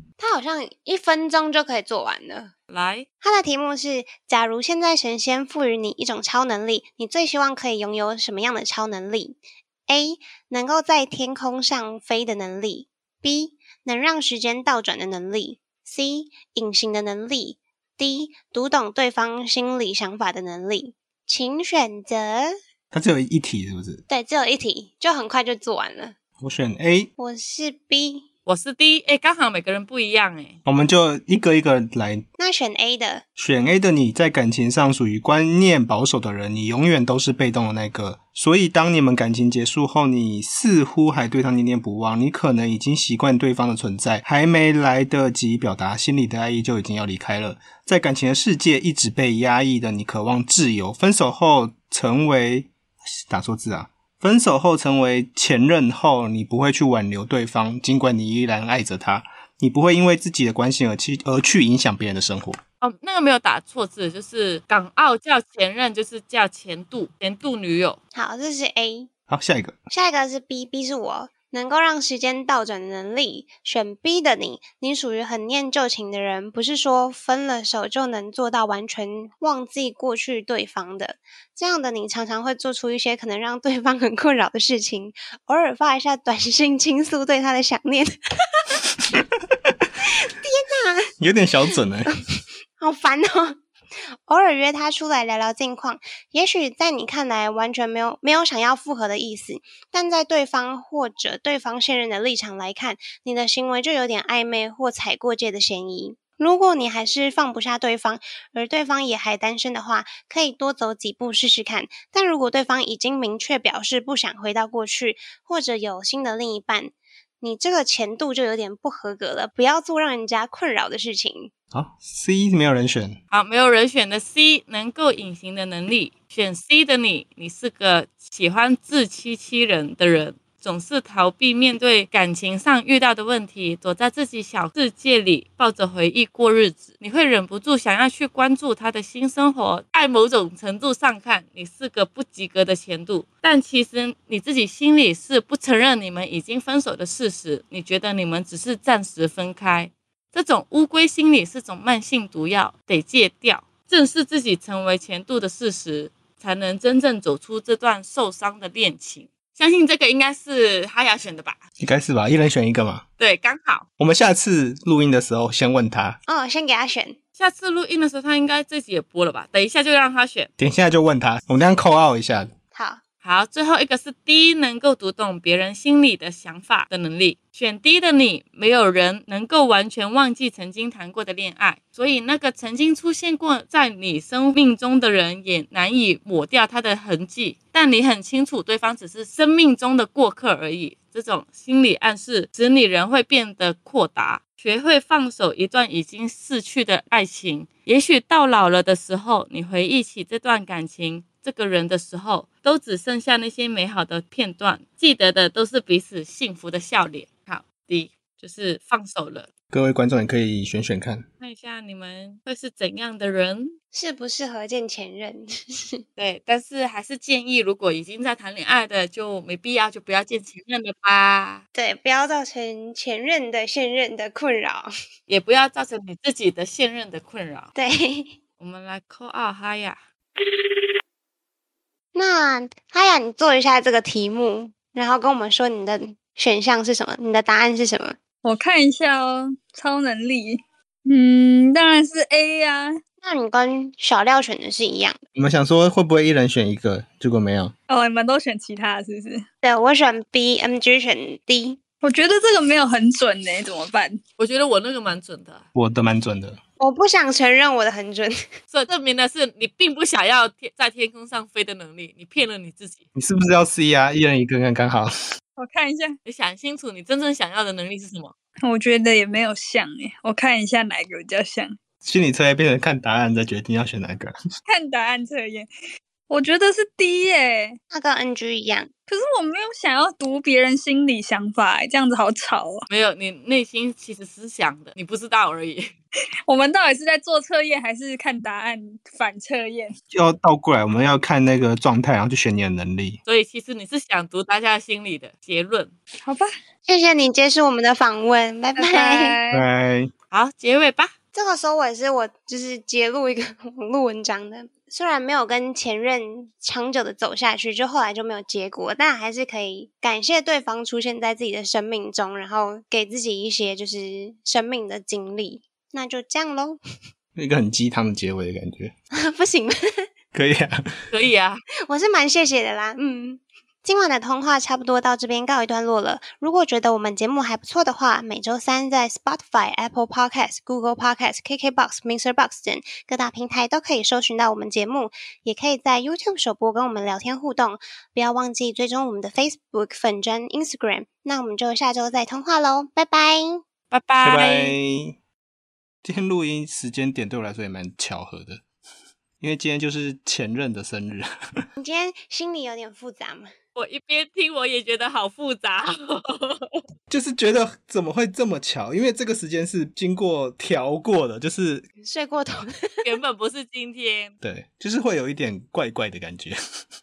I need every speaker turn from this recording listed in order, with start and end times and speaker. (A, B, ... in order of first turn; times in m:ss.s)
0:00.2-0:02.5 A
0:02.7-0:03.0 B
0:03.2-0:22.5 A
0:22.9-0:24.0 C
0:24.1-0:26.1 A
0:26.4-0:27.1 C
0:27.2-0:28.2 A
0:28.4-0:30.6 B
0:30.6-0:32.2 C
0:32.4-0:33.2 A
0:33.4-0:52.7 C
0:53.3-1:02.6 C
1:02.8-1:08.0 B
1:08.1-1:09.1 A
1:09.3-1:09.8 C
1:09.9-1:28.8 A
1:30.0-1:31.1 A
1:31.2-1:32.1 C
1:32.8-1:33.6 A
1:34.3-2:01.5 A
2:01.7-2:03.2 C
2:03.3-2:41.6 B
2:41.8-2:43.0 C
2:43.2-2:43.8 B
2:44.0-2:46.2 C
2:46.3-2:47.2 A
2:47.4-2:50.5 B
2:50.6-2:52.5 C
2:52.7-2:53.0 A
2:53.2-3:29.5 B
3:29.7-3:31.2 C
3:31.4-3:33.8 B
3:33.9-3:36.0 A
3:36.2-3:41.6 B
3:41.7-3:44.9 A
3:45.3-3:47.7 B
3:47.8-3:48.4 A
3:48.6-3:50.0 B
3:52.1-3:58.2 A
3:58.4-4:03.0 D
4:03.2-4:05.2 A
4:05.4-4:07.7 C
4:07.9-4:09.4 D
4:09.6-4:11.8 A
4:12.0-4:14.2 D
4:14.4-4:15.6 B
4:15.7-4:16.6 C
4:16.8-4:18.4 A
4:18.7-4:23.0 B
4:23.1-4:25.1 C
4:25.6-4:26.2 D
4:26.2-4:28.3 B
4:28.6-4:31.8 D
4:32.0-4:34.3 C
4:34.6-4:35.7 D
4:36.3-4:37.8 D
4:37.9-4:38.9 A
4:39.1-4:42.9 D
4:42.9-4:45.9 B
4:46.5-4:49.9 D
4:50.1-4:53.2 C
4:53.2-4:55.9 B
4:56.9-4:59.4 A
4:58.8-4:59.6 D
4:59.5-5:00.1 C
5:00.3-5:01.1 B
5:01.3-5:16.8 A
5:17.4-5:18.9 C
5:19.1-5:19.8 A
5:20.3-5:20.8 C
5:21.1-5:21.6 B
5:21.8-5:43.6 A
5:43.9-5:44.8 B
5:44.2-5:45.2 C
5:46.0-5:48.6 C
5:49.4-5:51.6 C
5:51.8-5:53.5 A
5:53.8-5:56.8 B
5:57.1-6:01.9 C
6:02.0-6:03.0 A
6:03.0-6:04.3 B
6:04.4-6:06.6 C